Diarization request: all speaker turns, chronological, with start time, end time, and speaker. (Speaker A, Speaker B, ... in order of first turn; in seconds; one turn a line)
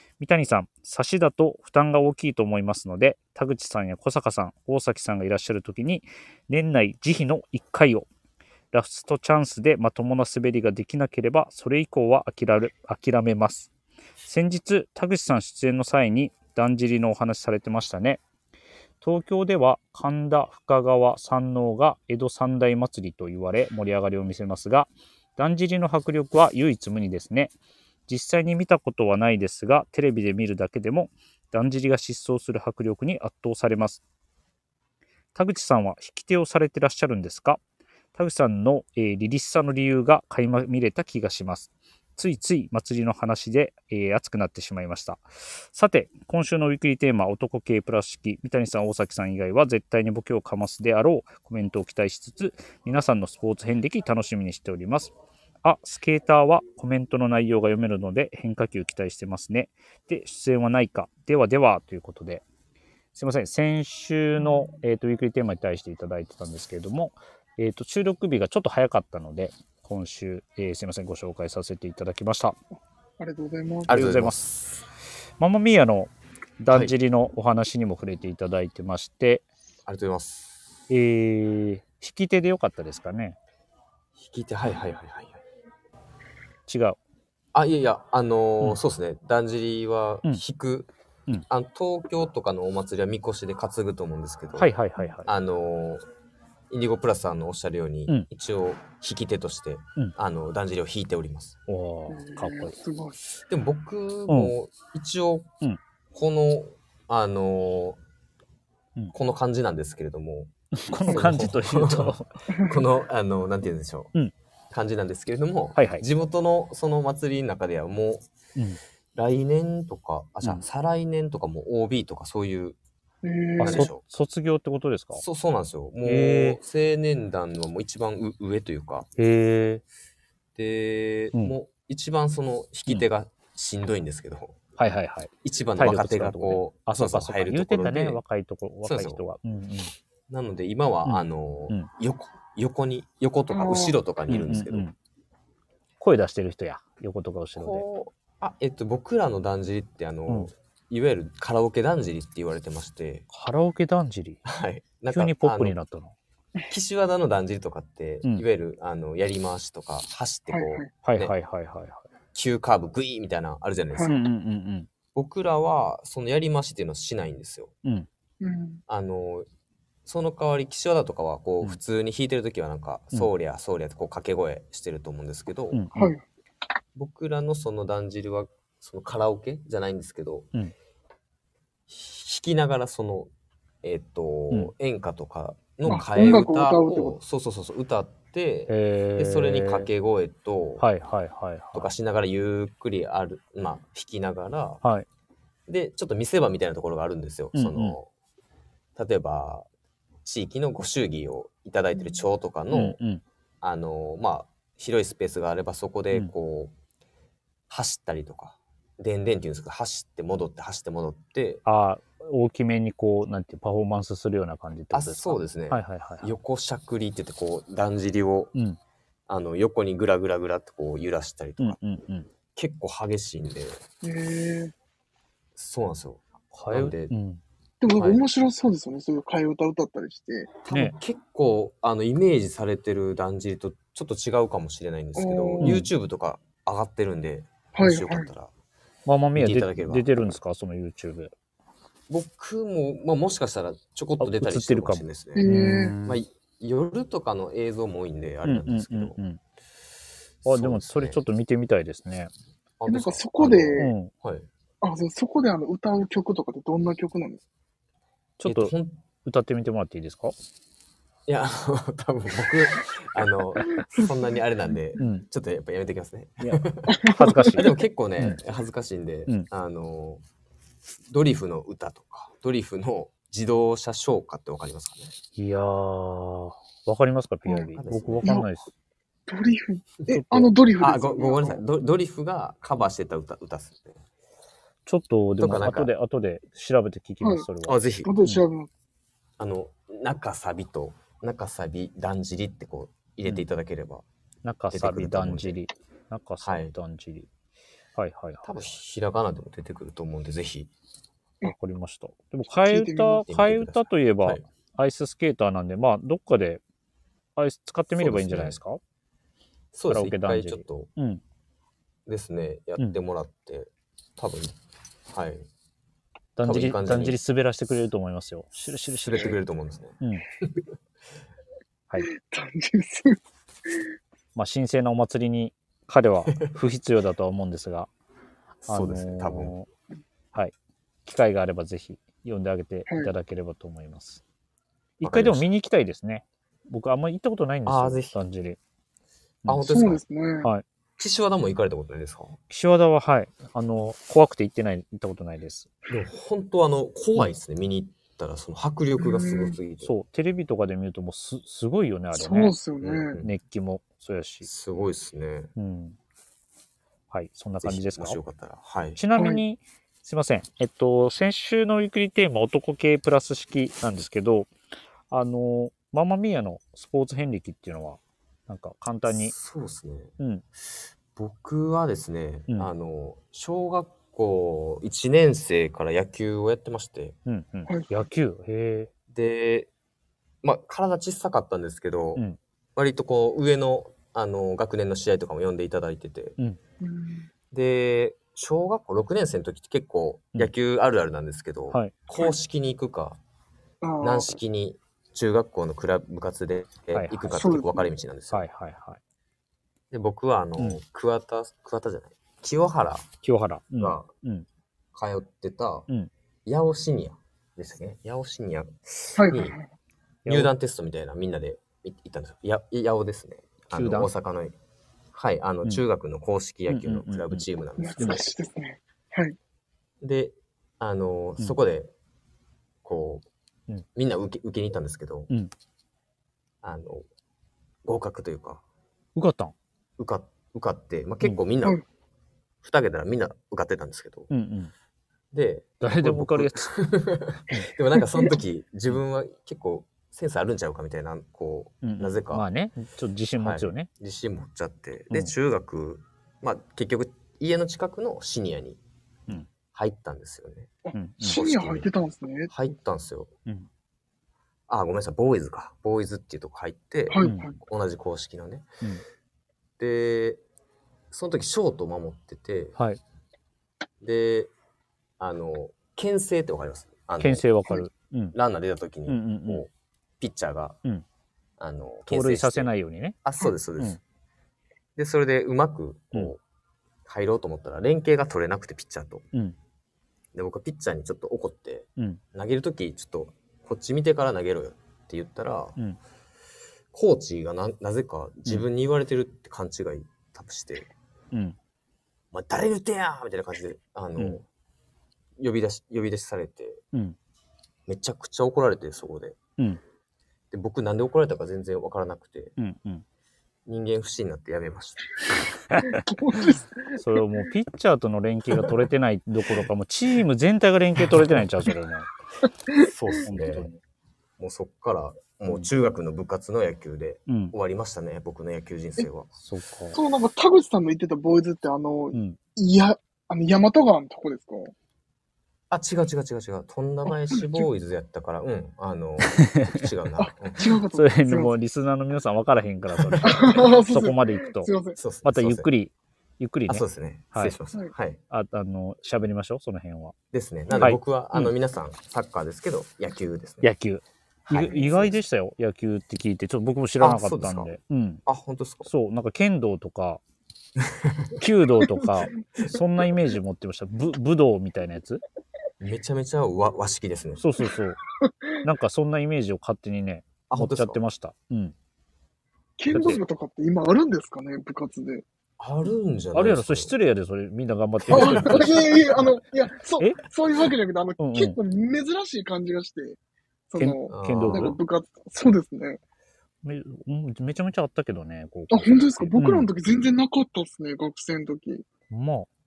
Speaker A: 0.2-8.1
Speaker A: 8.7-13.7
Speaker A: 14.2-18.2
Speaker A: 19.0-27.5
Speaker A: 28.1-34.0
Speaker A: 35.3-37.6
Speaker A: 38.1-62.4
Speaker A: 63.1-72.6
Speaker B: 73.2-74.1
Speaker C: 73.9-74.8
Speaker A: 73.9-74.5
Speaker A: 75.4-79.4
Speaker C: 79.8-80.7
Speaker A: 80.9-83.4
Speaker C: 84.2-85.4
Speaker A: 86.7-87.0
Speaker C: 87.5-90.9
Speaker C: 91.5-94.7
Speaker A: 94.6-95.3
Speaker C: 95.2-96.0
Speaker C: 96.7-101.5
Speaker A: 101.7-102.7
Speaker B: 102.1-103.2
Speaker C: 103.5-105.5
Speaker A: 104.3-104.5
Speaker C: 106.1-108.0
Speaker C: 109.1-110.5
Speaker A: 110.7-112.3
Speaker C: 111.0-114.1
Speaker B: 112.5-112.8
Speaker C: 114.7-118.2
Speaker A: 115.7-116.0
Speaker C: 119.1-122.8
Speaker B: 123.2-123.9
Speaker A: 123.6-125.2
Speaker C: 123.6-124.0
Speaker C: 125.1-129.1
Speaker A: 126.0-126.6
Speaker A: 129.2-129.8
Speaker C: 130.6-134.6
Speaker A: 134.8-139.9
Speaker C: 135.4-138.2
Speaker C: 138.8-139.2
Speaker C: 140.3-144.9
Speaker A: 141.0-141.9
Speaker B: 143.5-144.0
Speaker A: 144.3-144.9
Speaker A: 146.0-147.8
Speaker C: 147.6-153.2
Speaker A: 153.3-154.4
Speaker C: 154.4-155.8
Speaker A: 155.1-156.1
Speaker C: 156.7-161.3
Speaker B: 160.5-160.9
Speaker A: 161.0-162.0
Speaker C: 162.3-164.1
Speaker B: 163.9-164.2
Speaker A: 164.1-164.9
Speaker C: 165.1-167.7
Speaker B: 168.4-168.8
Speaker C: 168.9-169.5
Speaker C: 170.1-175.8
Speaker A: 175.7-176.1
Speaker B: 175.9-176.2
Speaker C: 176.9-180.5
Speaker C: 181.9-183.3
Speaker C: 183.8-190.8
Speaker B: 185.9-187.2
Speaker A: 188.7-189.9
Speaker A: 190.8-191.9
Speaker C: 191.7-194.8
Speaker C: 195.7-198.1
Speaker A: 197.5-198.0
Speaker C: 198.9-199.7
Speaker C: 200.2-203.0
Speaker A: 202.7-203.2
Speaker C: 203.6-206.7
Speaker C: 207.7-211.6
Speaker A: 211.6-216.3
Speaker C: 214.9-218.5
Speaker C: 219.3-221.8
Speaker A: 221.6-222.3
Speaker C: 222.5-223.8
Speaker B: 224.0-224.7
Speaker C: 225.6-227.1
Speaker A: 226.5-227.4
Speaker B: 227.8-230.5
Speaker C: 227.9-228.2
Speaker C: 230.6-238.5
Speaker A: 230.7-230.9
Speaker B: 235.2-235.8
Speaker A: 235.6-235.9
Speaker B: 237.7-238.3
Speaker A: 239.1-241.3
Speaker C: 239.3-240.3
Speaker C: 242.1-245.4
Speaker A: 244.2-246.2
Speaker B: 245.3-245.9
Speaker C: 246.0-249.2
Speaker A: 248.4-249.4
Speaker C: 250.4-251.2
Speaker A: 250.4-252.3
Speaker C: 252.8-254.5
Speaker B: 252.9-253.9
Speaker A: 253.8-254.1
Speaker B: 254.8-257.4
Speaker A: 258.4-260.3
Speaker C: 258.4-259.0
Speaker C: 261.3-270.2
Speaker A: 265.0-265.2
Speaker A: 266.4-267.6
Speaker B: 266.9-267.7
Speaker C: 271.1-275.1
Speaker A: 275.4-278.7
Speaker C: 277.7-278.4
Speaker B: 278.2-278.5
Speaker B: 279.3-281.6
Speaker A: 280.1-280.5
Speaker C: 280.8-284.0
Speaker A: 284.9-288.4
Speaker C: 285.4-285.9
Speaker C: 287.6-288.1
Speaker B: 288.0-288.7
Speaker C: 289.4-294.0
Speaker A: 294.4-297.3
Speaker C: 294.7-295.6
Speaker C: 296.4-296.7
Speaker A: 297.9-298.8
Speaker C: 298.4-300.7
Speaker A: 301.4-306.6
Speaker B: 302.6-303.2
Speaker C: 303.2-304.4
Speaker A: 307.4-308.8
Speaker C: 307.9-308.6
Speaker C: 309.7-310.9
Speaker A: 309.9-311.2
Speaker C: 312.1-314.6
Speaker C: 315.1-315.5
Speaker A: 316.4-319.4
Speaker C: 316.4-317.2
Speaker C: 319.0-320.6
Speaker A: 320.0-320.2
Speaker B: 322.1-323.2
Speaker A: 324.3-327.9
Speaker C: 328.6-329.5
Speaker A: 328.7-329.7
Speaker A: 331.1-334.2
Speaker B: 332.9-333.1
Speaker A: 335.0-338.6
Speaker C: 335.0-335.5
Speaker C: 337.6-338.2
Speaker C: 339.5-340.0
Speaker B: 339.7-340.5
Speaker C: 341.0-342.4
Speaker A: 342.5-345.7
Speaker C: 345.9-349.9
Speaker B: 349.0-349.6
Speaker A: 349.8-352.5
Speaker B: 352.1-353.2
Speaker C: 352.8-353.3
Speaker A: 353.2-354.5
Speaker C: 354.4-355.5
Speaker A: 355.6-356.0
Speaker A: 357.1-358.2
Speaker C: 357.6-359.0
Speaker A: 358.9-364.5
Speaker B: 359.1-359.4
Speaker A: 365.1-369.3
Speaker C: 369.1-370.1
Speaker A: 370.2-370.4
Speaker C: 371.1-377.2
Speaker A: 377.3-378.9
Speaker C: 379.1-379.7
Speaker C: 380.4-382.2
Speaker C: 382.8-386.4
Speaker B: 386.8-387.3
Speaker C: 387.5-393.2
Speaker B: 393.8-394.4
Speaker C: 394.0-398.4
Speaker A: 396.9-397.3
Speaker B: 397.3-397.9
Speaker A: 398.3-399.0
Speaker C: 399.9-403.1
Speaker A: 403.2-404.4
Speaker C: 403.8-404.1
Speaker C: 404.9-405.9
Speaker C: 406.4-409.6
Speaker B: 409.2-409.7
Speaker A: 410.2-410.5
Speaker C: 410.2-414.5
Speaker A: 413.7-414.1
Speaker C: 415.1-418.2
Speaker A: 416.7-417.4
Speaker B: 417.8-419.4
Speaker C: 420.0-421.9
Speaker C: 422.8-423.2
Speaker C: 423.9-425.3
Speaker C: 426.6-427.1
Speaker C: 427.8-428.6
Speaker A: 429.1-429.5
Speaker C: 430.0-431.8
Speaker C: 432.6-434.3
Speaker A: 434.3-434.7
Speaker C: 435.3-442.5
Speaker A: 435.8-436.8
Speaker A: 441.8-443.9
Speaker C: 443.4-448.8
Speaker C: 449.7-451.9
Speaker B: 450.8-452.5
Speaker A: 450.9-451.4
Speaker C: 452.5-453.3
Speaker C: 454.7-458.6
Speaker B: 457.1-457.6
Speaker A: 457.2-457.5
Speaker C: 459.8-460.4
Speaker C: 461.1-462.8
Speaker C: 464.0-464.5
Speaker C: 465.2-467.8
Speaker A: 467.2-468.4
Speaker C: 468.3-470.8
Speaker A: 469.1-469.6
Speaker C: 471.6-472.7
Speaker A: 472.1-473.2
Speaker C: 473.2-474.0
Speaker C: 474.9-476.4
Speaker C: 477.0-479.3
Speaker C: 480.3-485.8
Speaker C: 486.9-490.9
Speaker A: 491.3-491.6
Speaker C: 492.3-494.4
Speaker C: 495.4-496.8
Speaker C: 497.9-499.4
Speaker C: 500.5-502.6
Speaker A: 502.6-503.0
Speaker C: 503.6-505.1
Speaker A: 505.7-506.0
Speaker B: 505.8-507.2
Speaker A: 507.0-512.1
Speaker C: 512.8-513.7
Speaker A: 513.2-513.8
Speaker C: 514.4-519.3
Speaker A: 517.3-517.5
Speaker A: 519.4-520.0
Speaker B: 519.9-524.7
Speaker C: 525.7-530.7
Speaker B: 527.3-527.6
Speaker A: 529.2-529.9
Speaker B: 530.2-531.5
Speaker A: 530.9-534.7
Speaker C: 532.9-533.6
Speaker B: 533.2-535.0
Speaker C: 535.0-535.7
Speaker A: 535.2-537.5
Speaker C: 536.7-538.2
Speaker A: 538.3-540.1
Speaker C: 540.3-543.7
Speaker A: 540.8-541.5
Speaker A: 543.6-548.2
Speaker C: 544.5-545.2
Speaker C: 547.0-547.7
Speaker C: 548.2-548.9
Speaker A: 548.8-550.2
Speaker C: 550.9-551.4
Speaker A: 551.4-555.2
Speaker C: 555.8-557.5
Speaker A: 557.4-558.0
Speaker B: 558.2-558.5
Speaker A: 558.6-561.7
Speaker C: 560.5-561.0
Speaker B: 562.8-565.2
Speaker A: 562.9-563.2
Speaker C: 565.6-566.9
Speaker A: 566.3-569.0
Speaker C: 568.1-568.8
Speaker B: 568.1-573.2
Speaker A: 571.2-571.6
Speaker B: 573.7-576.0
Speaker A: 573.8-574.8
Speaker C: 574.1-574.8
Speaker A: 576.6-579.7
Speaker B: 578.7-581.8
Speaker A: 582.1-582.5